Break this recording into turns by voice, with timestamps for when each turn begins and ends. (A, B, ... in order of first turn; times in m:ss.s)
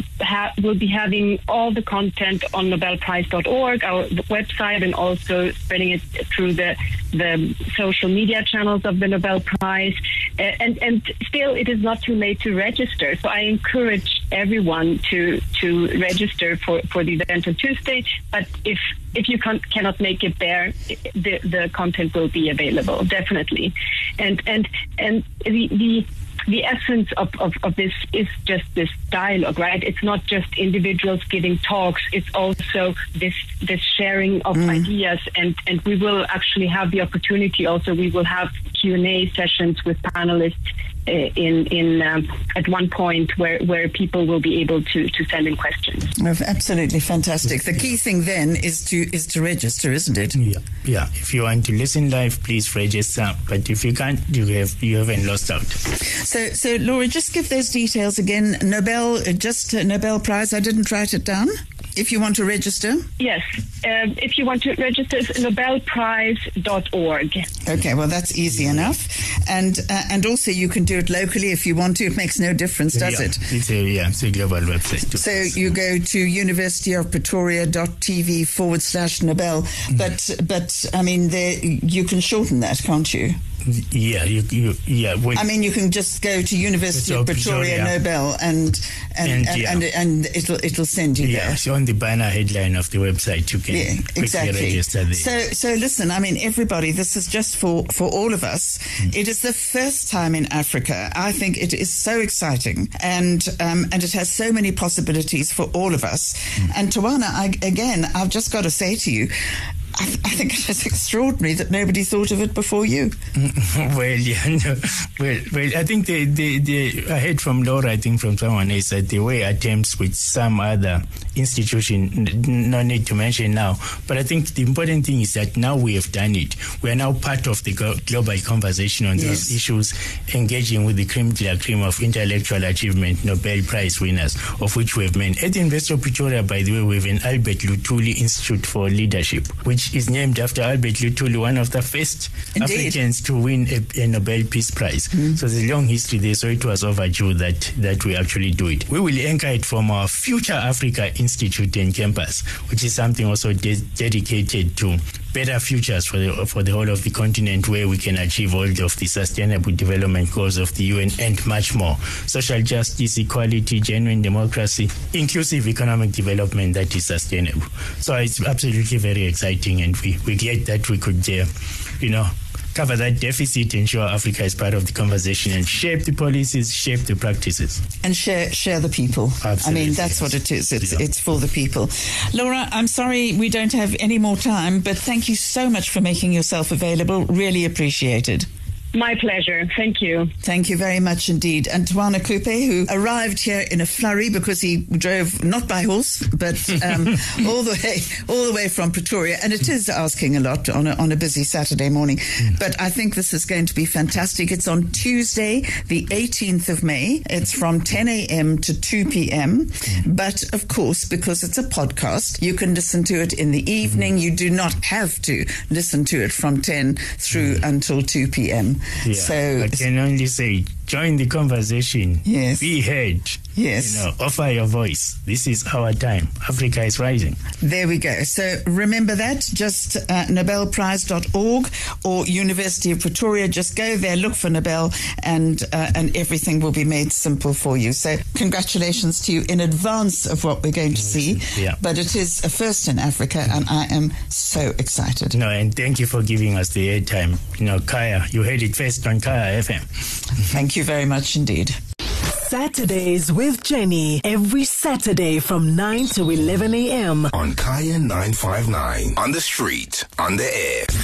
0:00.2-0:46.1 A
0:46.2-0:50.4 B
0:50.4-0:55.8 C
0:56.0-1:03.1 B
1:03.2-1:07.5 A
1:07.7-1:13.5 B
1:08.6-1:08.9 C
1:12.9-1:15.7 C
1:15.2-1:23.4 B
1:23.6-1:25.5 C
1:25.3-1:31.6 B
1:26.9-1:28.0 C
1:29.2-1:29.8 C
1:31.2-1:35.3 C
1:33.7-1:53.2 B
1:53.4-2:51.5 C
2:09.2-2:09.5 B
2:22.6-2:23.0 B
2:52.0-2:57.8 C
2:58.0-3:08.5 B
2:59.4-3:00.3 C
3:08.9-3:10.3 A
3:10.4-3:39.8 B
3:39.0-3:47.4 C
3:42.2-3:42.7 B
3:43.6-3:44.1 B
3:47.6-4:05.4 B
4:01.0-4:01.8 C
4:05.3-4:09.9 C
4:10.5-4:11.8 B
4:12.3-4:17.3 D
4:17.3-4:20.9 E